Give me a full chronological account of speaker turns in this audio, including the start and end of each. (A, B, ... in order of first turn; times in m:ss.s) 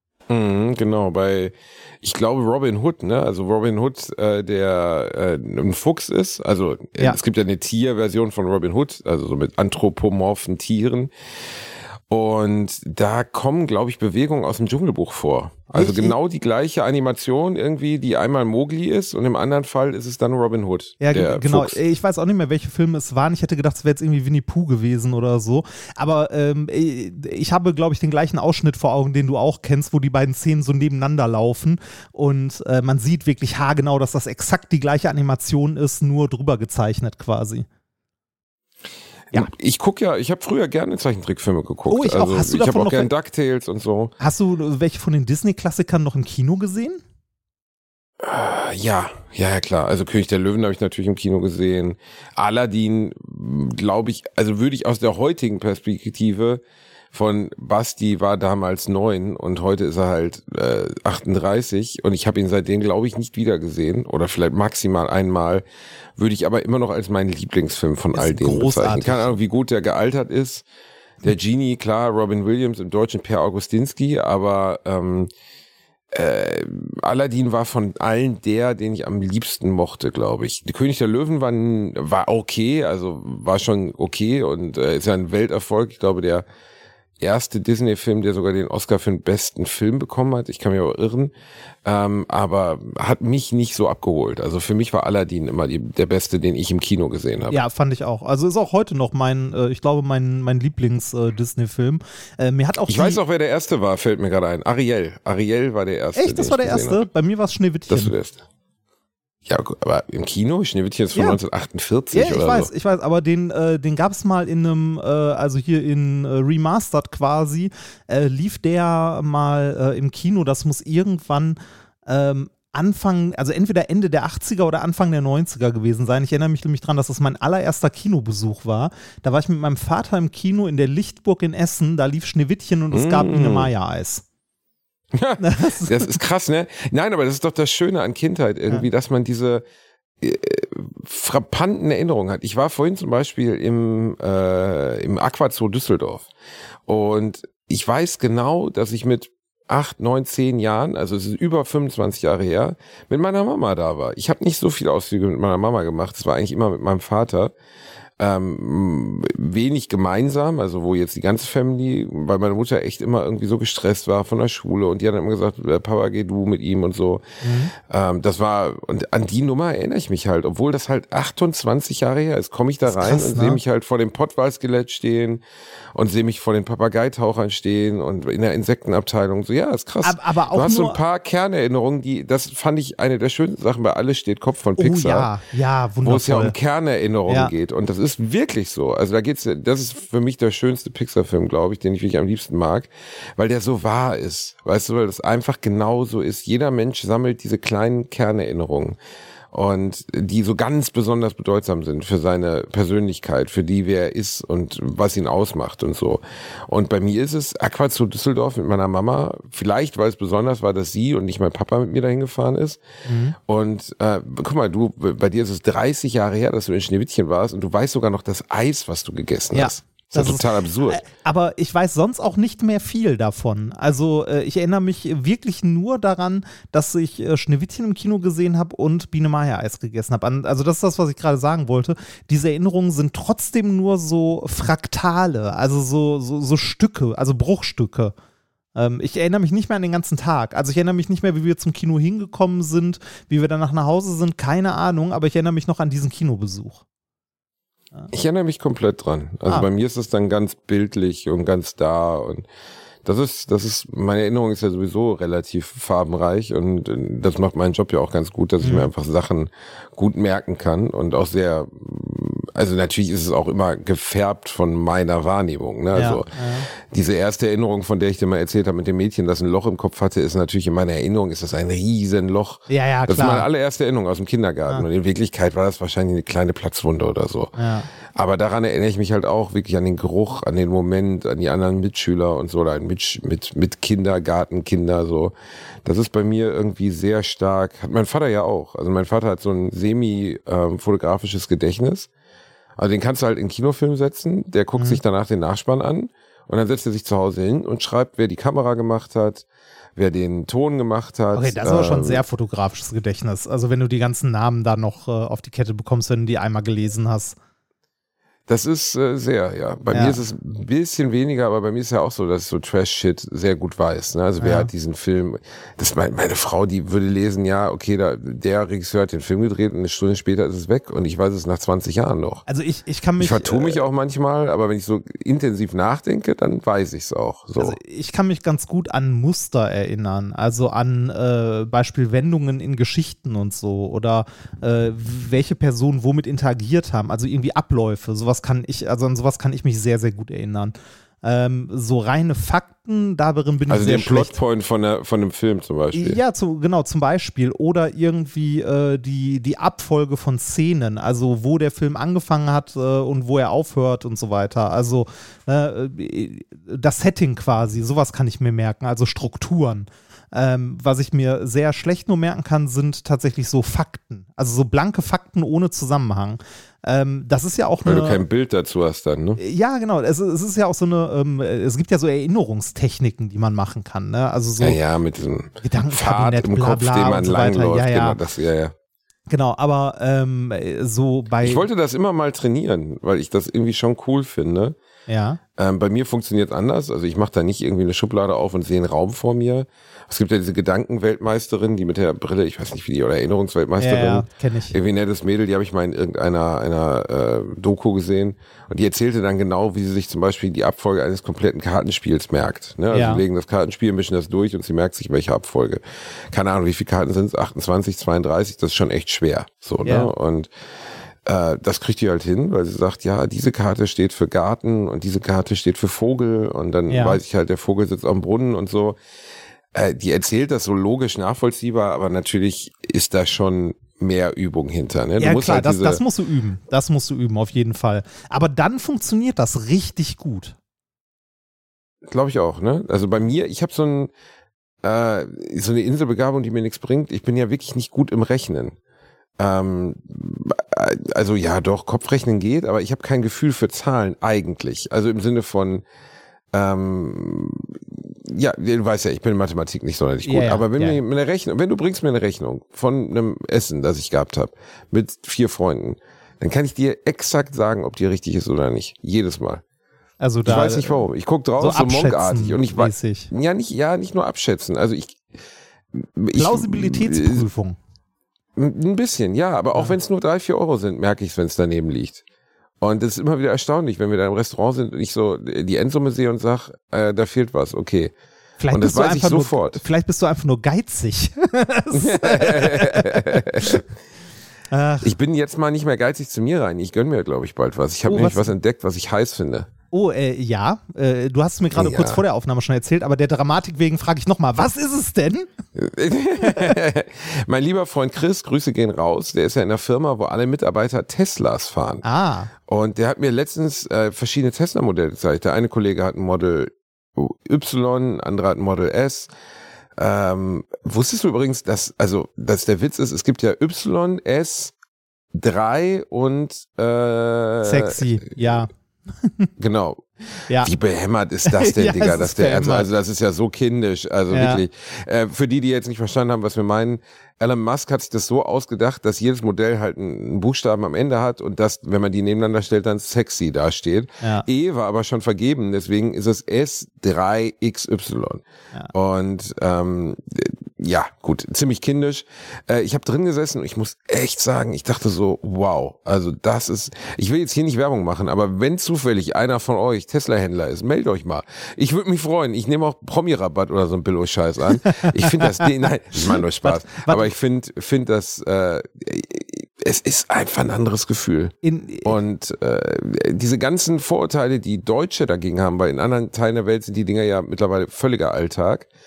0:00.3-0:11.1 A
0:12.1-0:21.8 A
0:15.7-0:16.2 B
0:21.0-0:37.7 B
0:39.3-0:44.1 A
0:41.9-0:43.1 B
0:44.2-0:47.0 B
0:48.2-0:56.6 A
0:57.1-1:05.6 A
1:06.2-1:10.6 A
1:08.1-1:09.3 B
1:11.2-1:15.3 A
1:16.1-1:26.4 A
1:27.2-1:31.3 A
1:31.8-1:37.6 A
1:37.5-1:43.2 B
1:42.9-1:47.0 A
1:46.2-1:48.1 B
1:47.9-1:48.4 A
1:49.5-1:52.7 A
1:51.1-1:51.4 B
1:52.1-2:14.2 B
2:12.9-2:13.7 A
2:15.1-2:19.6 A
2:15.4-2:16.1 B
2:20.2-2:26.3 A
2:26.9-2:37.5 A
2:38.2-2:47.2 A
2:47.4-2:47.7 B
2:47.8-2:55.4 A
2:52.9-2:53.6 B
2:55.9-3:05.3 A
3:00.0-3:01.0 B
3:04.8-3:06.6 B
3:06.0-3:19.0 A
3:19.5-3:32.8 A
3:33.0-3:33.4 B
3:33.5-3:41.0 A
3:39.5-3:58.1 B
3:58.8-4:06.8 B
4:08.1-4:12.4 A
4:13.0-4:37.6 A
4:18.6-4:18.9 B
4:25.9-4:26.7 B
4:32.7-4:33.5 B
4:37.6-4:37.9 B
4:38.1-4:45.3 A
4:45.8-4:52.1 A
4:52.8-4:59.4 A
5:00.0-5:02.2 A
5:01.3-5:07.4 B
5:08.5-5:22.4 A
5:09.9-5:10.2 B
5:14.4-5:14.7 B
5:22.5-5:23.8 B
5:23.2-5:27.8 A
5:27.6-5:44.4 B
5:43.7-5:46.2 A
5:45.9-6:08.2 B
6:07.8-6:09.4 A
6:09.4-6:14.8 B
6:14.6-6:18.7 A
6:15.6-6:18.2 B
6:19.3-6:21.6 B
6:21.4-6:24.8 A
6:25.1-6:25.4 B
6:25.6-6:50.5 A
6:33.8-6:34.8 B
6:42.9-6:43.2 B
6:49.8-6:50.1 B
6:51.2-6:59.0 A
6:56.9-6:57.2 B
6:59.7-7:06.0 A
7:05.2-7:10.6 B
7:12.1-7:14.1 A
7:14.8-7:18.8 A
7:19.4-7:25.8 A
7:26.5-7:39.6 A
7:30.2-7:31.0 B
7:40.2-7:41.0 B
7:40.4-7:45.2 A
7:41.6-7:43.3 B
7:45.9-7:47.5 A
7:46.4-7:47.8 B
7:48.6-7:52.2 A
7:52.8-7:58.1 A
7:58.6-8:03.8 B
7:58.7-7:59.8 A
8:01.9-8:03.8 A
8:04.7-8:05.1 B
8:05.0-8:09.7 A
8:08.1-8:08.5 B
8:09.9-8:15.5 B
8:11.7-8:12.2 A
8:15.8-8:22.0 A
8:16.4-8:16.7 B
8:22.0-8:22.5 B
8:22.7-8:29.3 A
8:30.0-8:34.7 A
8:35.3-8:38.4 A
8:37.6-8:39.5 B
8:39.6-8:40.0 A
8:40.5-8:40.7 B
8:40.6-9:28.9 A
8:41.5-8:42.9 B
8:44.3-8:44.6 B
9:14.9-9:15.7 B
9:16.3-9:17.3 B
9:21.6-9:22.2 B